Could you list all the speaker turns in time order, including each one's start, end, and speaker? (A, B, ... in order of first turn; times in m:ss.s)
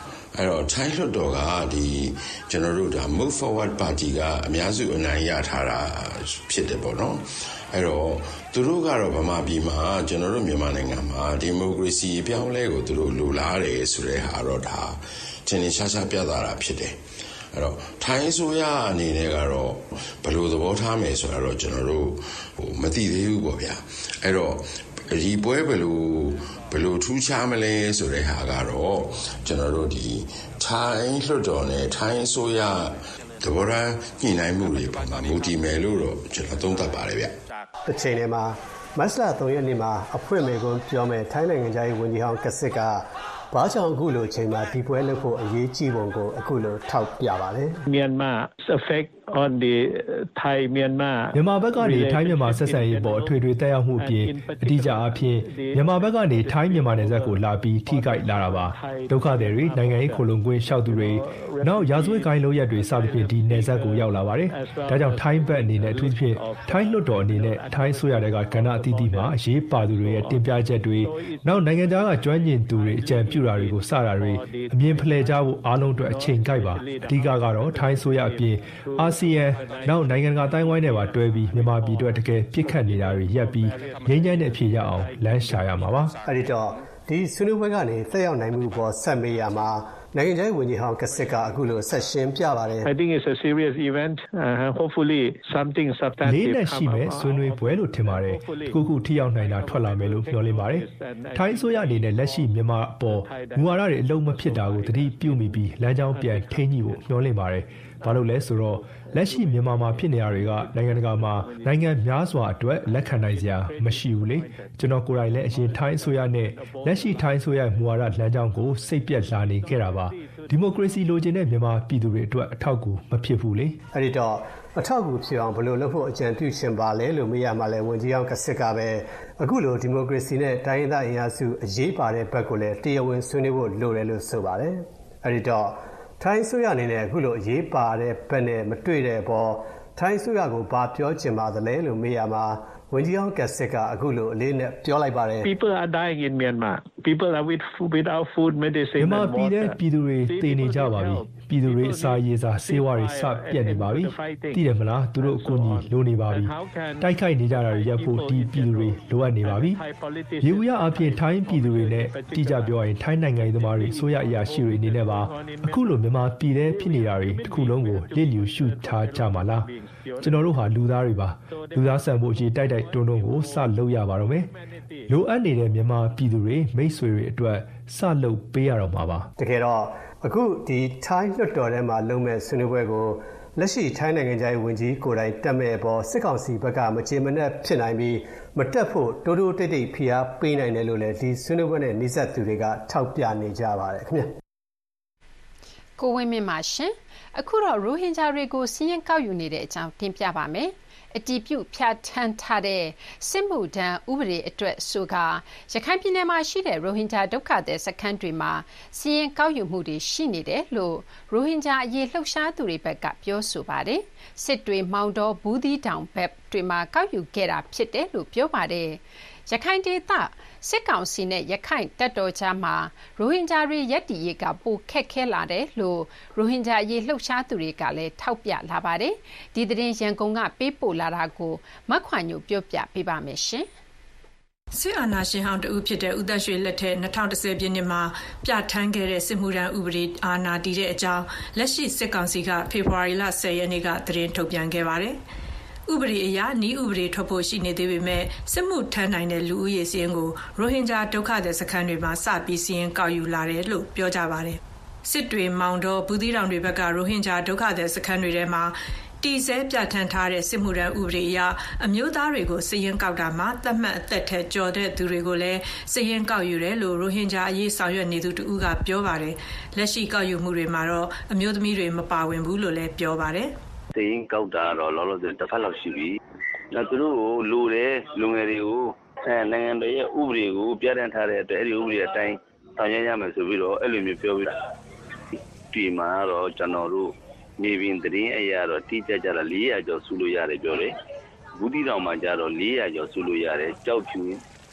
0:00.4-0:17.0 A
0:17.5-0:37.3 A
0:37.9-0:47.8 B
0:47.9-0:52.2 C
0:51.3-1:26.1 D
1:26.2-1:32.9 B
1:32.8-1:36.7 C
1:36.2-2:03.8 D
2:03.9-2:25.5 B
2:25.4-2:29.6 C
2:29.0-2:39.8 D
2:40.4-2:54.5 D
2:55.1-2:59.3 D
2:59.4-3:14.3 B
3:16.0-3:53.7 E
3:54.7-4:05.2 F
4:05.9-4:33.5 F
4:33.9-4:36.2 G
4:36.7-4:44.5 G
4:45.7-4:50.9 G
4:51.5-4:54.4 G